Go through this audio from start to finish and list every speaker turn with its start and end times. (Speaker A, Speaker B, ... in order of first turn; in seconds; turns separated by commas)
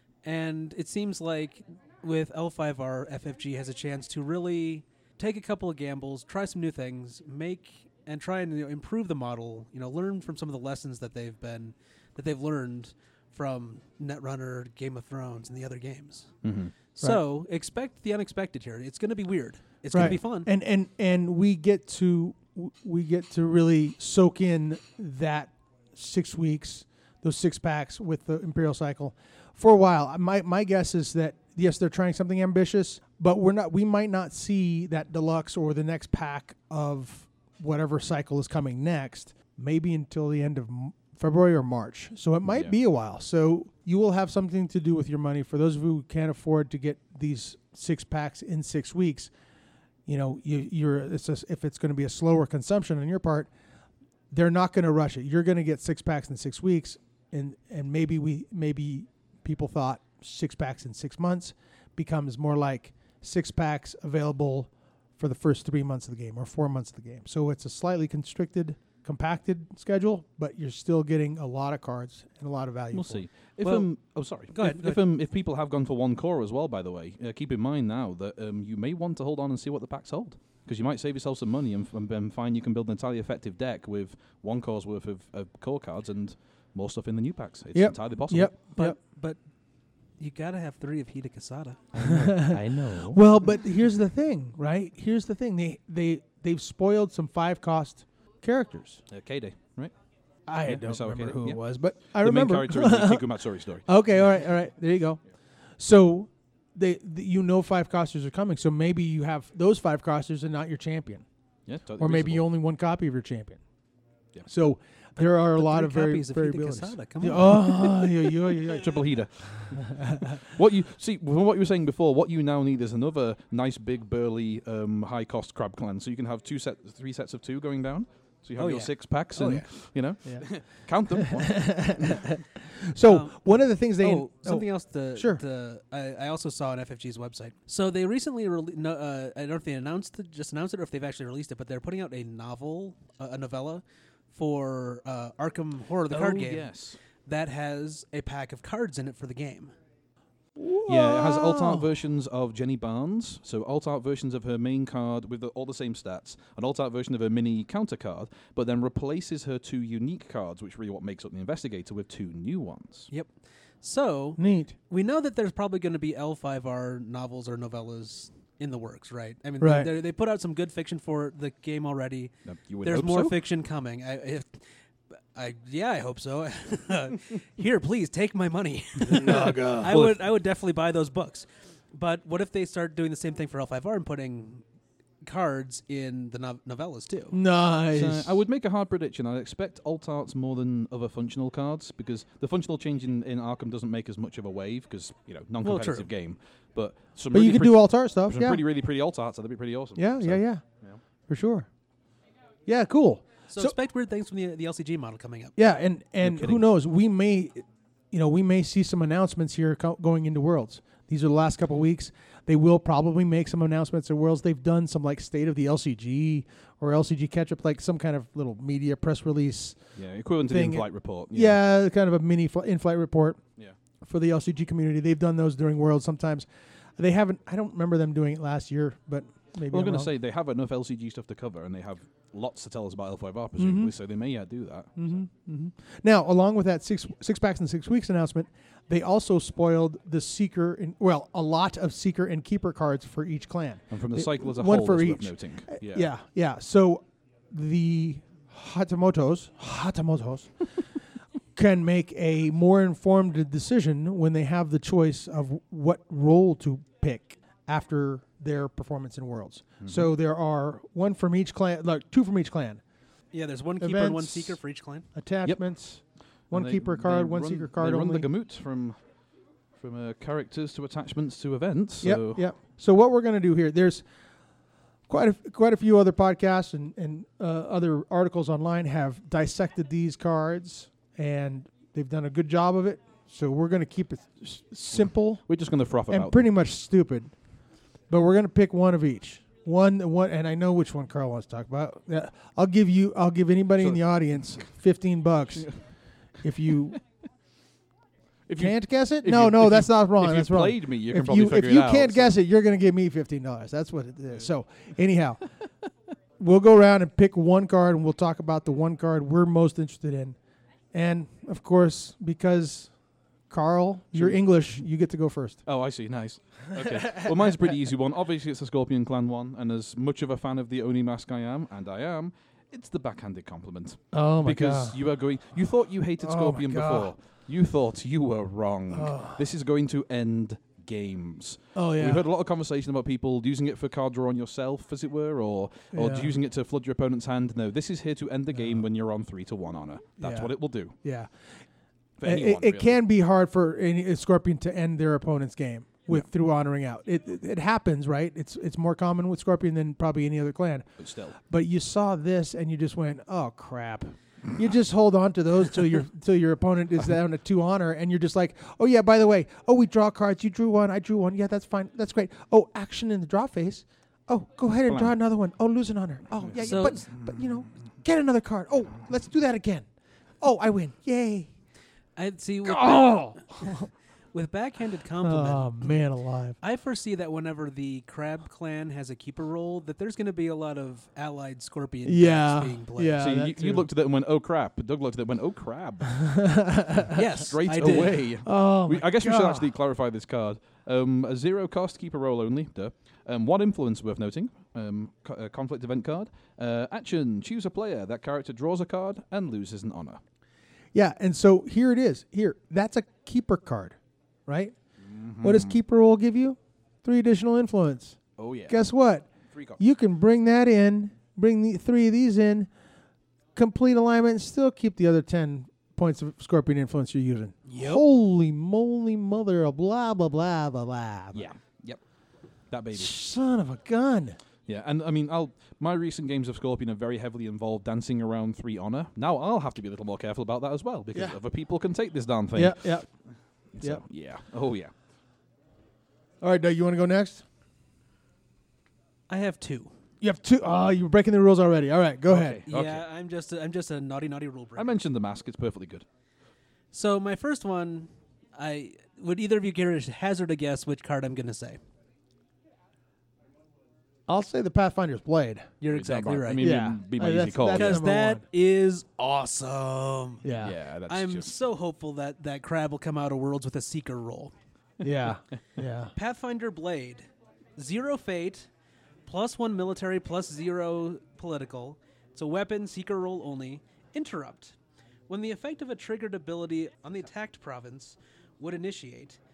Speaker A: 0.2-20.5, Speaker B: 16.4-16.7, Speaker C: 19.9-49.3, Speaker B: 19.9-20.2, Speaker B: 42.4-42.7, Speaker C: 50.0-53.5, Speaker C: 54.3-73.2, Speaker B: 72.9-88.5, Speaker A: 74.5-75.0, Speaker C: 87.7-89.0, Speaker A: 88.7-92.2, Speaker B: 91.9-93.2, Speaker C: 92.0-99.0, Speaker B: 99.1-104.4, Speaker C: 100.5-111.2, Speaker B: 111.7-112.5, Speaker C: 111.9-113.6, Speaker C: 114.5-120.3, Speaker A: 115.2-118.1, Speaker B: 118.8-132.1, Speaker A: 128.6-129.9, Speaker C: 130.2-132.2, Speaker C: 132.8-135.4, Speaker A: 133.0-149.7, Speaker B: 146.1-147.0, Speaker C: 150.6-151.9, Speaker B: 150.9-163.1, Speaker A: 163.1-174.7, Speaker C: 164.4-164.7, Speaker C: 169.6-169.9, Speaker B: 172.4-173.3, Speaker A: 175.3-184.6, Speaker C: 179.1-179.9, Speaker B: 179.7-180.1, Speaker A: 185.2-187.3, Speaker C: 187.3-188.4, Speaker B: 187.9-201.0, Speaker A: 195.6-196.1, Speaker C: 197.3-198.6, Speaker C: 199.9-201.7, Speaker C: 202.7-203.8, Speaker A: 203.5-205.5, Speaker C: 205.6-223.4, Speaker B: 206.2-206.6, Speaker B: 219.9-221.6, Speaker C: 224.0-230.1, Speaker B: 229.7-235.2, Speaker C: 233.6-233.9, Speaker C: 234.9-262.8, Speaker B: 243.9-246.1, Speaker B: 259.8-260.1, Speaker A: 263.3-265.1, Speaker C: 263.8-268.3, Speaker B: 265.4-272.5, Speaker C: 272.0-274.1, Speaker C: 275.1-297.0, Speaker B: 285.5-286.5, Speaker B: 293.8-294.7, Speaker B: 295.5-295.9, Speaker B: 298.5-302.3, Speaker C: 298.6-305.5, Speaker C: 306.4-310.4, Speaker C: 310.9-313.0, Speaker C: 313.5-315.6, Speaker B: 314.1-314.8, Speaker B: 315.6-341.0, Speaker C: 324.1-325.0, Speaker C: 326.2-327.1, Speaker C: 328.9-329.4, Speaker C: 331.7-332.2, Speaker C: 335.9-336.3, Speaker C: 338.5-338.8, Speaker C: 340.2-341.7, Speaker B: 342.2-343.0, Speaker C: 342.2-371.5, Speaker B: 351.0-351.3, Speaker B: 364.9-365.2, Speaker B: 366.4-367.6, Speaker A: 366.6-367.1, Speaker A: 372.1-383.2, Speaker C: 372.6-373.9, Speaker C: 375.2-376.6, Speaker C: 382.0-383.9, Speaker B: 383.2-386.5, Speaker C: 386.2-387.2, Speaker A: 387.1-388.2, Speaker B: 387.5-400.2, Speaker C: 387.8-389.7, Speaker C: 400.9-404.8, Speaker B: 405.0-405.8, Speaker C: 405.4-412.7, Speaker B: 408.4-408.9, Speaker B: 409.5-409.8, Speaker C: 413.5-421.5, Speaker A: 417.7-418.0, Speaker B: 421.3-423.2, Speaker C: 422.9-424.4, Speaker B: 424.6-434.9, Speaker C: 431.1-431.4, Speaker C: 432.5-434.0, Speaker C: 436.4-437.4, Speaker A: 439.3-439.9, Speaker C: 440.2-442.6, Speaker B: 442.2-443.0, Speaker A: 442.7-444.9, Speaker B: 444.8-446.1, Speaker A: 446.9-451.8, Speaker C: 454.3-455.7, Speaker A: 455.8-456.8, Speaker B: 455.9-458.0, Speaker C: 456.6-458.4, Speaker A: 457.7-464.5, Speaker C: 460.4-460.7, Speaker B: 460.6-461.5, Speaker C: 465.0-466.1, Speaker A: 466.1-468.7, Speaker A: 469.2-474.8, Speaker A: 475.3-479.4